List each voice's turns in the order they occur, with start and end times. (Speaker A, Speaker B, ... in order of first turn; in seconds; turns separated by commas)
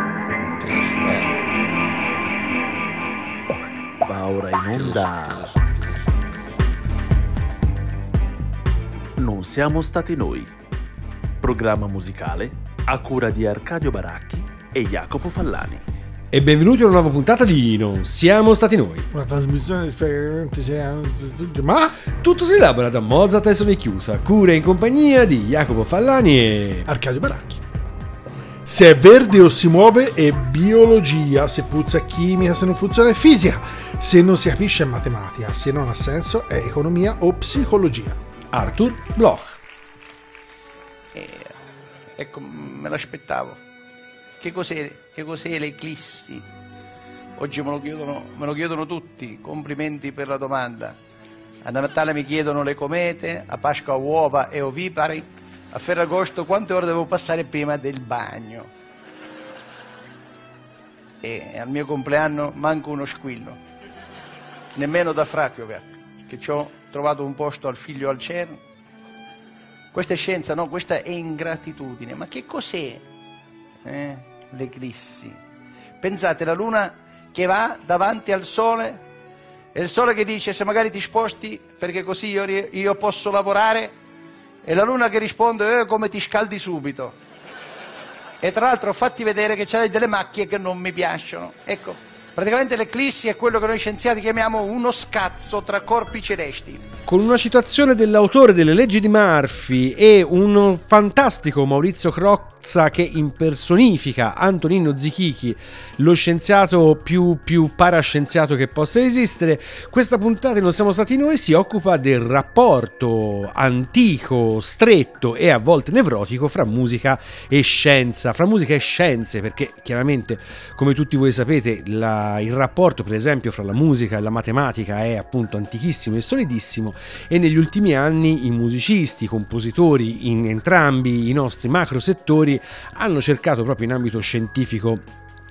Speaker A: 0.6-1.3, Speaker A: 4.0-5.7, Speaker A: 9.2-10.5, Speaker A: 11.4-15.8, Speaker B: 16.3-19.1, Speaker C: 19.1-22.0, Speaker B: 22.2-26.9, Speaker C: 26.9-27.6, Speaker C: 28.7-38.2, Speaker B: 38.5-39.6, Speaker D: 41.1-41.5, Speaker D: 42.2-43.6, Speaker D: 44.4-46.5, Speaker D: 47.4-51.0, Speaker D: 51.6-58.7, Speaker D: 61.2-63.6, Speaker D: 64.8-68.6, Speaker D: 69.9-73.0, Speaker D: 73.8-75.4, Speaker D: 76.0-79.0, Speaker D: 79.8-84.0, Speaker D: 84.7-87.2, Speaker D: 88.4-96.8, Speaker B: 97.1-135.1